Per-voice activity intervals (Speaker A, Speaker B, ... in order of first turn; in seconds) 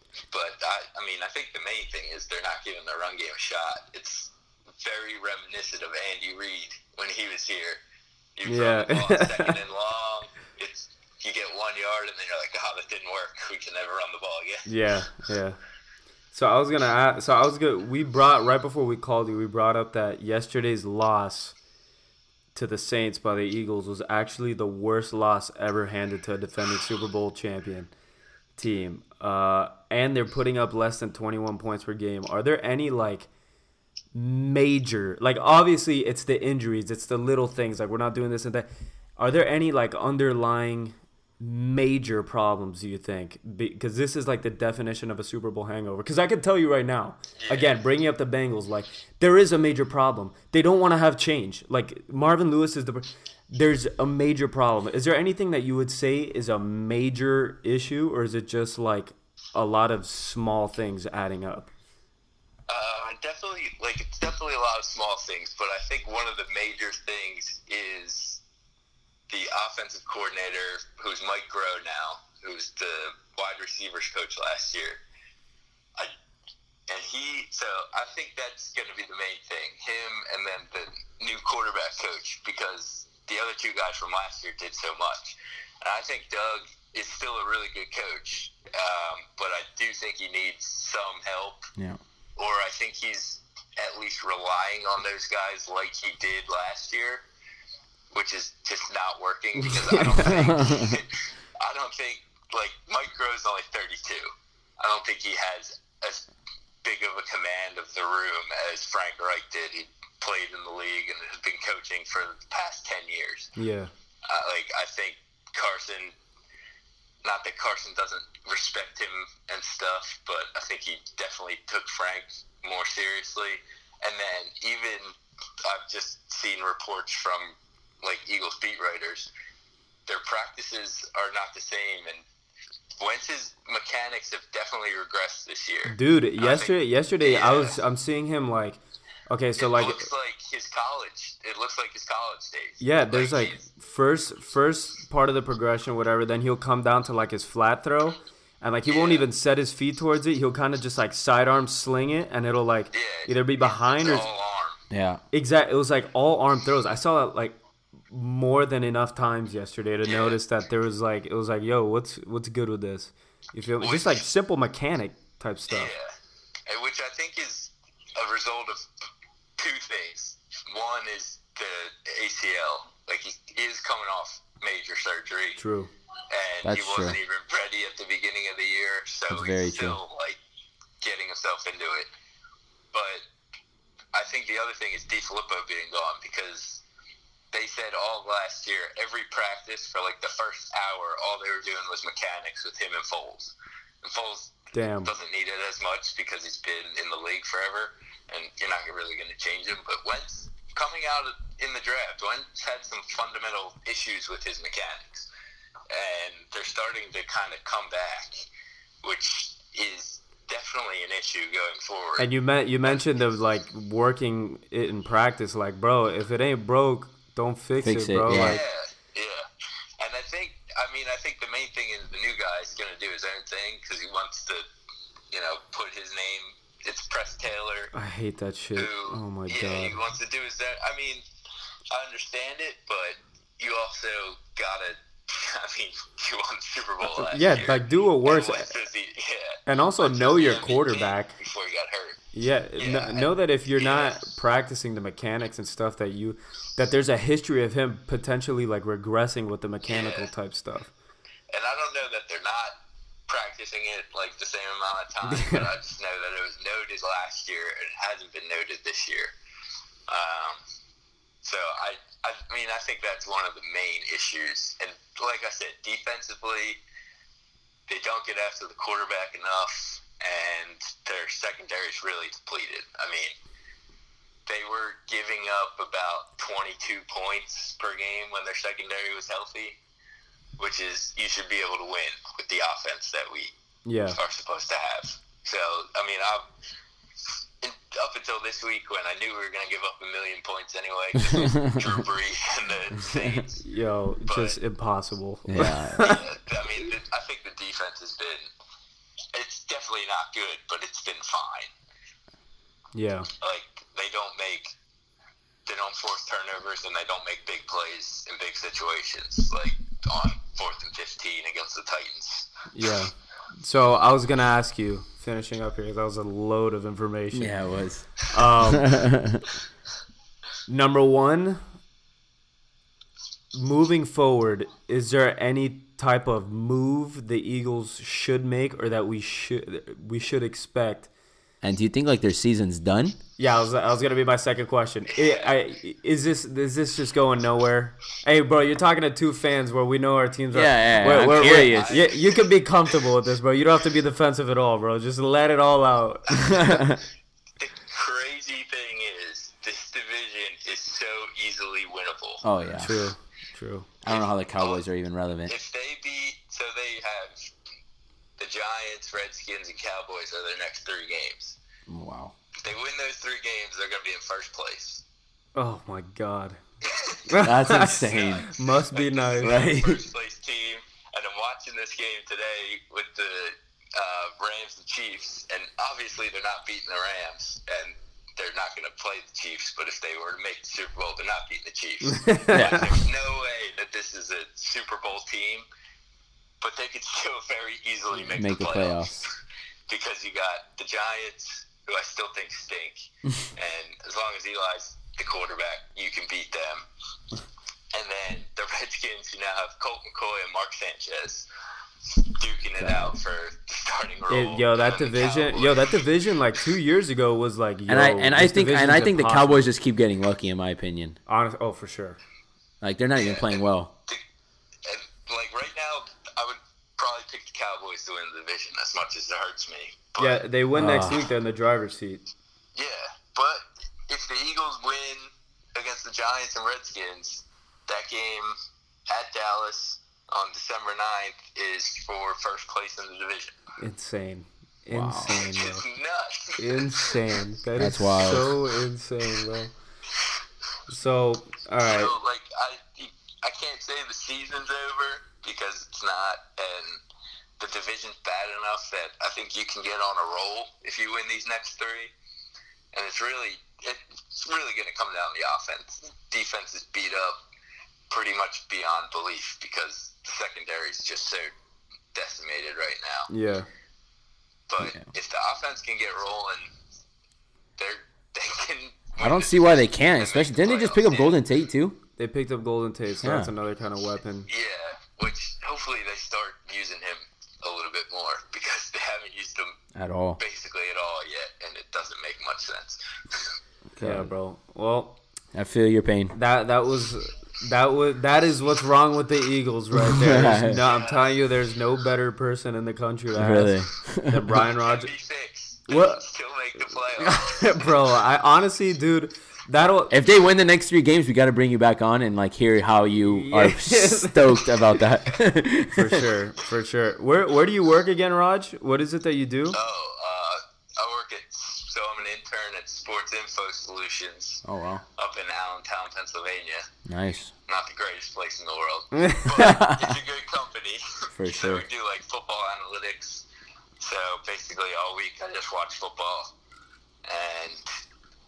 Speaker A: 0.3-7.8, 8.4-14.7, 47.4-47.8, 62.7-68.4, 69.3-75.0, 76.9-91.7, 92.4-97.2, 98.1-104.3, 104.8-106.3, 106.8-113.5, 114.2-116.1, 117.2-125.1, 125.6-129.3, 130.1-132.2, 133.0-137.8, 139.6-143.6, 148.9-149.3, 152.9-154.8, 160.1-160.4, 163.8-164.2, 165.7-166.1, 166.7-168.8, 169.6-175.6, 176.3-180.4, 181.0-182.1, 182.9-183.2, 184.1-186.8, 187.5-205.3, 205.9-208.5, 209.0-212.3, 218.3-219.5, 220.0-224.6, 225.3-227.9, 228.8-231.2, 231.9-242.2, 242.8-244.2, 249.9-250.3, 251.5-259.3, 260.1-260.6, 261.4-266.8, 267.9-273.4, 274.5-279.8, 280.6-283.5, 284.1-286.5, 287.6-293.6, 294.3-294.6, 296.0-298.5, 299.3-301.7, 303.4-304.7, 305.6-312.5, 335.1-335.5, 341.2-342.6, 347.6-352.4, 354.1-354.8, 355.5-357.5, 358.4-361.6, 362.6-365.0, 366.8-385.6, 386.6-389.4, 389.9-396.9, 397.9-401.5, 402.2-406.1, 413.2-414.2, 414.8-420.4, 422.8-428.5, 429.1-433.6, 435.3-437.1, 441.9-447.0, 447.6-452.1, 452.9-457.4, 458.1-461.5, 462.1-463.3, 464.7-466.7, 467.8-471.4, 474.5-479.8, 480.4-483.5, 490.9-491.4, 494.8-498.1, 509.7-514.6, 515.2-516.9, 517.7-523.4, 524.0-526.5, 527.2-527.8
Speaker B: 8.5-9.6, 14.7-15.6, 16.3-21.6, 22.6-27.9, 28.6-33.3, 34.1-61.7, 99.6-100.4, 113.6-113.9, 135.9-140.1, 142.8-154.3, 155.3-157.6, 158.1-165.9, 175.6-175.9, 194.7-195.1, 212.2-218.6, 227.9-230.0, 237.2-238.7, 239.7-241.3, 242.3-250.9, 255.3-255.7, 283.9-284.2, 293.6-296.2, 302.9-303.3, 312.7-317.6, 318.3-318.9, 320.7-321.6, 323.5-331.1, 333.4-346.8, 352.8-353.9, 365.6-366.6, 367.3-367.9, 368.5-369.9, 382.2-382.6, 404.3-409.5, 411.3-412.2, 420.2-422.2, 433.8-435.8, 436.6-439.7, 440.9-442.1, 463.3-463.7, 472.2-474.5, 484.0-485.2, 486.3-495.1, 495.9-496.2, 497.2-500.1, 503.2-504.8, 505.9-509.8, 519.2-519.5
Speaker C: 100.4-101.0, 154.9-155.2, 176.6-177.2, 179.3-180.0, 217.8-218.6, 295.5-296.0, 317.3-319.4, 331.6-333.2, 340.5-342.1, 346.6-347.0, 352.4-353.1, 354.0-355.5, 361.9-362.3, 367.4-368.5, 369.4-369.9, 382.5-382.9, 388.3-389.3, 402.8-403.1, 407.9-411.2, 412.8-413.9, 420.8-421.2, 434.9-435.3, 437.8-438.5, 464.8-465.0, 469.2-472.0, 473.2-473.5, 479.9-480.4, 484.0-484.3, 485.5-486.4, 490.0-490.8, 493.4-494.5, 500.1-506.3, 514.6-515.0, 517.1-517.5, 519.6-520.2, 521.4-521.9